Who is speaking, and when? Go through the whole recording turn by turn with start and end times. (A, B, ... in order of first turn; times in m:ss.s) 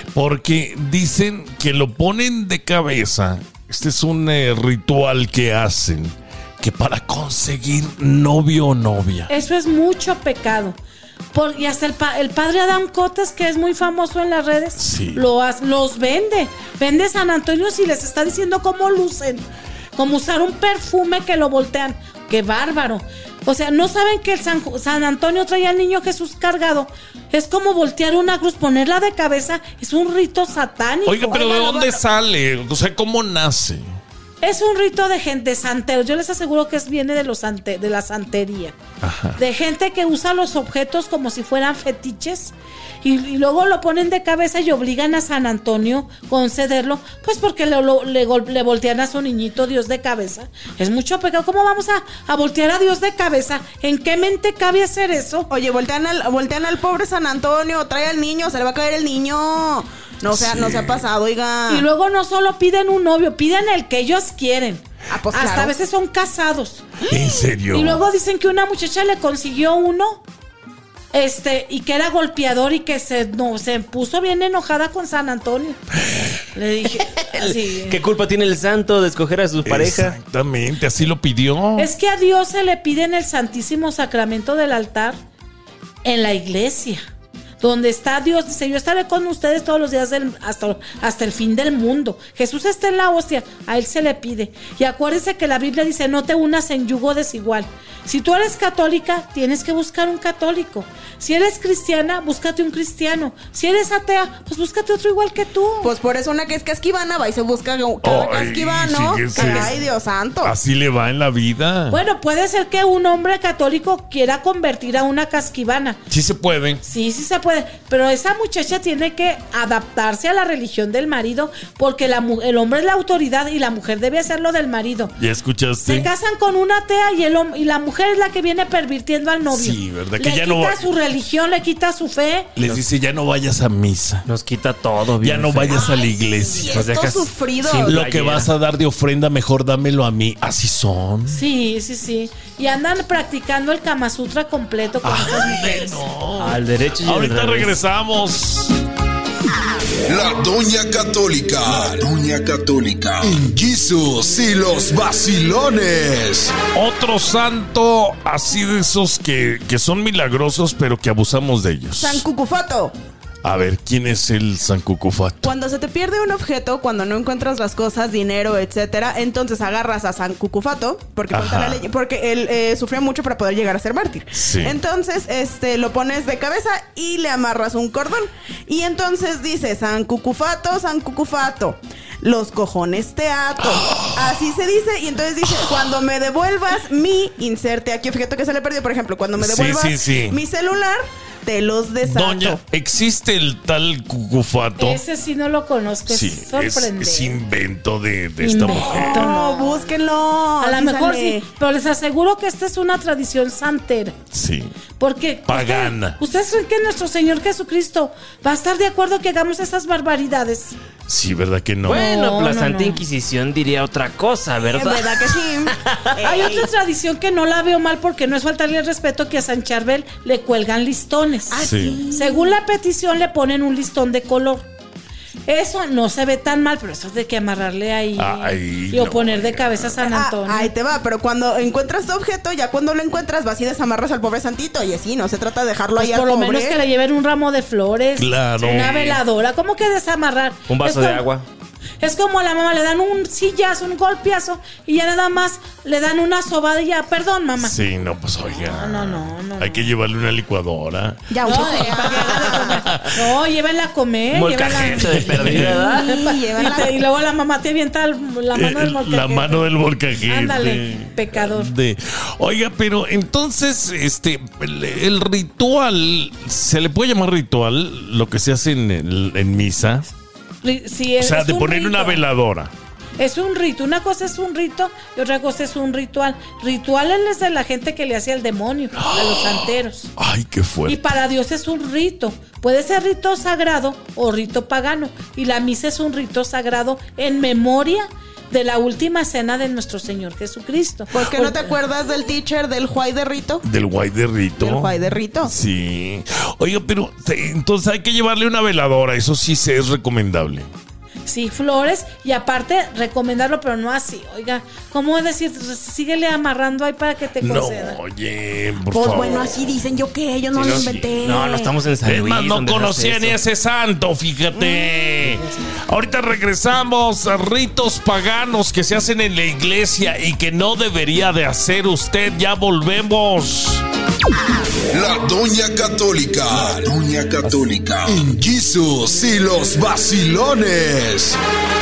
0:00.1-0:09.3 A
0:09.3-0:10.8 B
0:11.3-0:31.9 B
0:14.8-0:15.2 A
0:31.0-0:33.9 A
0:34.4-0:38.8 B
0:39.0-0:39.4 A
0:39.4-0:55.5 B
0:55.5-1:01.9 C
1:00.3-1:01.0 A
1:01.7-1:07.0 B
1:05.1-1:05.7 C
1:07.0-1:08.0 A
1:07.7-1:10.2 B
1:11.1-1:15.8 B
1:16.0-1:16.3 A
1:16.5-1:18.0 B
1:17.1-1:20.2 D
1:19.6-1:21.9 A
1:21.8-1:25.2 B
1:26.0-1:27.0 B
1:27.6-1:45.9 B
1:45.8-1:50.5 C
1:48.0-1:49.7 A
1:49.3-1:49.7 B
1:50.4-1:52.0 A
1:51.9-1:56.0 B
1:56.1-1:56.8 A
1:56.8-2:05.1 B
2:05.2-2:06.1 A
2:05.8-2:12.5 B
2:09.5-2:10.8 A
2:12.6-2:14.3 A
2:14.2-2:15.9 D
2:15.2-2:16.9 A
2:15.7-2:18.0 C
2:16.7-2:18.5 D
2:17.8-2:21.4 A
2:21.3-2:26.0 B
2:25.0-2:28.7 A
2:26.4-2:27.8 D
2:30.1-2:36.6 E
2:36.7-2:42.2 A
2:42.0-2:42.9 C
2:43.4-2:45.5 A
2:45.4-3:12.6 C
2:51.3-2:51.8 A
2:54.3-2:54.8 A
3:03.7-3:04.1 A
3:09.4-3:10.4 A
3:12.0-3:15.0 A
3:14.8-3:17.4 B
3:16.1-3:19.3 A
3:18.4-3:19.8 B
3:18.7-3:21.4 C
3:20.6-3:24.2 B
3:24.3-3:24.7 A
3:25.0-3:30.7 B
3:25.5-3:26.2 A
3:31.1-3:32.1 A
3:31.8-3:36.5 D
3:31.9-3:33.0 B
3:34.7-3:36.7 C
3:36.2-3:44.7 B
3:41.5-3:42.6 C
3:41.6-3:42.0 A
3:45.5-3:50.7 B
3:48.2-3:50.0 A
3:50.0-3:56.8 C
3:56.0-4:01.2 B
3:58.2-3:59.2 A
4:00.7-4:01.4 D
4:02.0-4:07.8 B
4:07.6-4:11.9 A
4:08.6-4:09.9 B
4:11.3-4:12.8 C
4:11.4-4:19.6 B
4:12.7-4:13.3 A
4:14.3-4:16.0 D
4:14.8-4:15.8 A
4:15.5-4:17.0 C
4:18.5-4:30.1 A
4:20.2-4:21.7 B
4:30.6-4:32.2 B
4:31.2-4:32.7 A
4:33.2-4:40.1 B
4:39.0-4:41.2 A
4:40.8-4:51.7 B
4:51.1-4:53.6 C
4:53.6-5:00.7 A
4:54.6-4:55.5 C
5:01.3-5:08.0 B
5:07.4-5:09.6 A
5:08.9-5:11.7 C
5:10.5-5:13.4 D
5:12.0-5:23.8 A
5:24.9-5:31.4 E